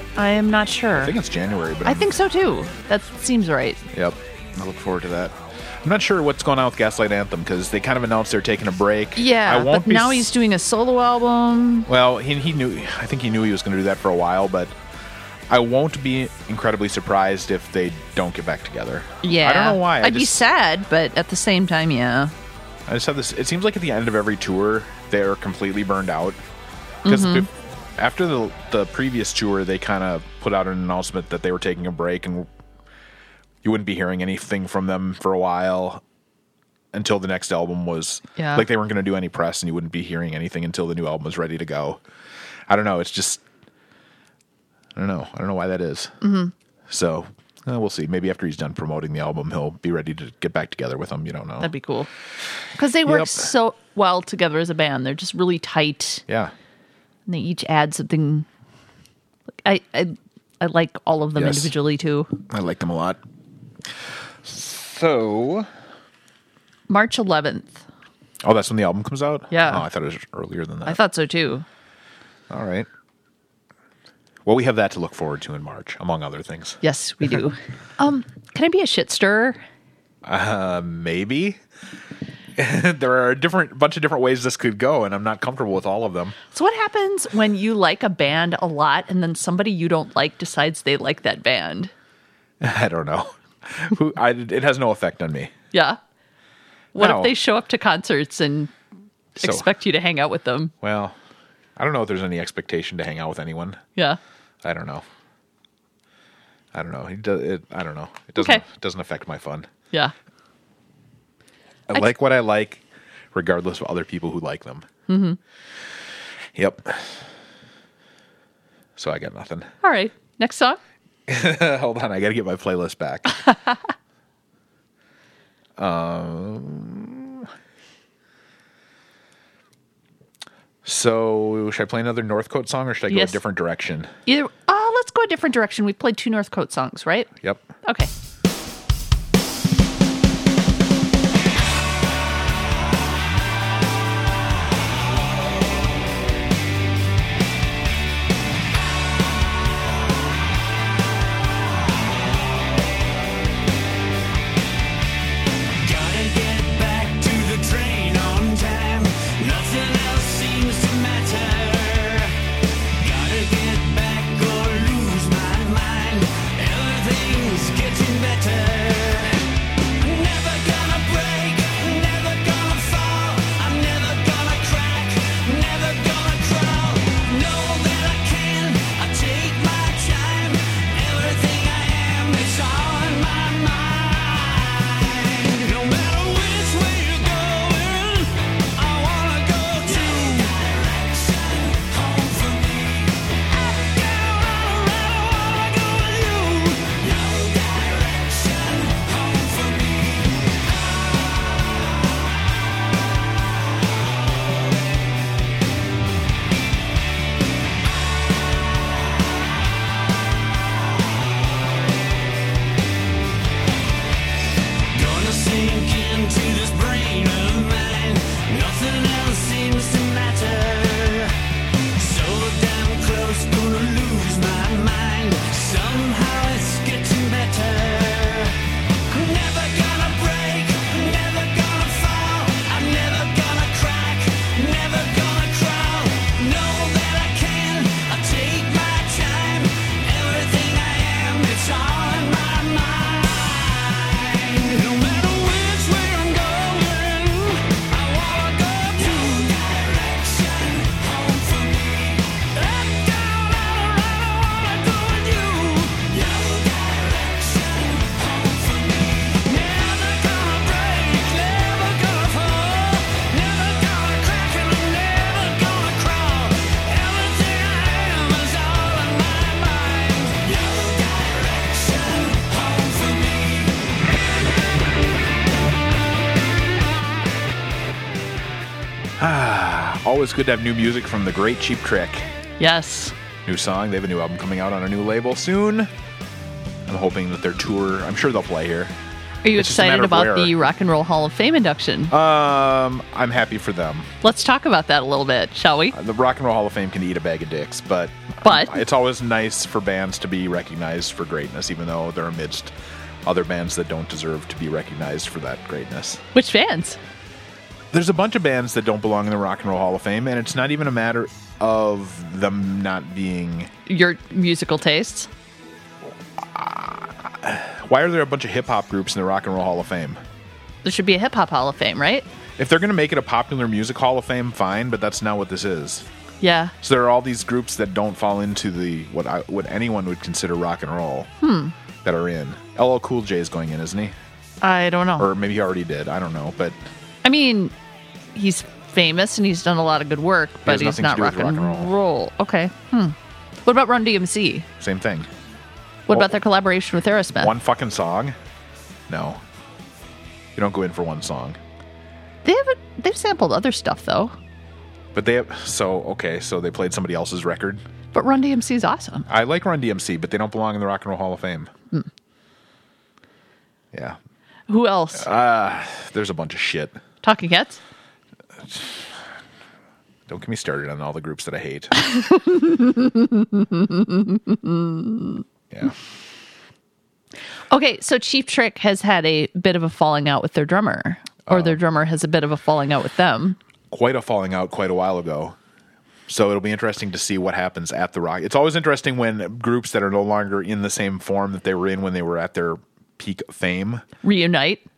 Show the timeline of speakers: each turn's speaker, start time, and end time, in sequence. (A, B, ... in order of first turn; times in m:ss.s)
0:00.2-0:01.1 A
0:01.0-0:02.1 B
0:01.8-0:03.8 A
0:03.9-0:10.3 B
0:09.2-0:11.9 A
0:11.9-0:14.8 B
0:15.5-0:20.4 B
0:19.2-0:22.3 A
0:22.9-0:26.4 B
0:27.0-0:27.5 A
0:27.0-0:32.5 B
0:33.6-0:36.0 B
0:36.9-0:42.0 B
0:38.4-0:38.6 A
0:42.7-0:43.4 B
0:44.9-0:46.2 B
0:46.2-0:46.5 A
0:46.9-0:51.7 B
0:51.6-0:52.1 A
0:52.8-0:56.2 A
0:53.0-0:53.5 B
0:56.3-0:56.5 B
0:57.3-0:58.4 A
0:59.6-1:02.3 A
1:01.3-1:01.7 B
1:02.5-1:03.2 B
1:04.4-1:05.7 B
1:06.9-1:07.8 A
1:08.4-1:11.0 B
1:09.5-1:09.8 A
1:10.8-1:11.6 A
1:12.5-1:12.9 B
1:14.4-1:16.8 B
1:16.8-1:19.6 A
1:20.2-1:21.6 B
1:22.6-1:26.4 B
1:26.5-1:31.9 A
1:32.6-1:35.5 B
1:35.7-1:36.0 A
1:36.9-1:37.3 B
1:36.9-1:38.7 A
1:39.4-1:40.7 A
1:39.4-1:39.7 B
1:40.8-1:41.1 B
1:41.8-1:43.8 B
1:44.6-1:45.0 B
1:46.7-1:49.7 B
1:48.4-1:48.6 A
1:51.9-1:54.8 B
1:55.1-1:55.4 A
1:56.5-1:57.2 B
1:59.0-1:59.7 B
1:59.8-2:00.8 A
2:01.3-2:03.4 B
2:05.8-2:07.5 B
2:10.8-2:14.1 B
2:13.1-2:13.4 A
2:14.3-2:17.3 A
2:17.4-2:17.6 B
2:17.8-2:18.1 A
2:35.8-2:42.3 C
2:43.0-2:49.4 C
2:50.0-3:20.5 C
3:34.9-3:41.3 C
3:41.9-3:48.6 C
3:49.1-4:33.8 C
4:39.2-4:42.3 B
4:42.6-4:43.1 A
4:43.4-4:45.9 B
4:46.9-4:48.9 B
4:49.4-4:52.1 A
4:49.5-4:50.5 B
4:52.1-4:54.1 B
4:54.2-4:56.0 A
4:55.9-5:06.2 B
4:58.4-4:58.8 A
5:06.3-5:07.0 A
5:07.9-5:13.7 B
5:13.9-5:15.3 A
5:16.4-5:20.2 B
5:20.8-5:22.3 A
5:22.6-5:26.0 B
5:26.4-5:26.7 A
5:26.8-5:31.3 B
5:31.4-5:31.7 A
5:32.0-5:34.1 B
5:34.6-5:35.3 A
5:35.2-5:36.8 B
5:37.2-5:37.7 A
5:38.3-5:44.7 A
5:40.6-5:41.9 B
5:44.8-5:45.3 B
5:46.1-5:47.5 A
5:46.1-5:46.4 B
5:47.4-5:48.3 B
5:49.1-5:49.4 B
5:50.5-5:51.6 B
5:52.4-5:54.4 A
5:55.1-5:57.8 B
5:58.1-5:59.3 A
5:59.3-6:01.7 B
6:03.9-6:04.2 B
6:04.7-6:05.3 A
6:05.2-6:07.0 B
6:07.2-6:07.8 A
6:08.6-6:09.1 B
6:10.3-6:12.0 B
6:12.0-6:15.4 A
6:17.7-6:23.6 A
6:21.5-6:21.8 B
6:23.9-6:25.6 B
6:26.3-6:34.0 B
6:34.2-6:34.8 A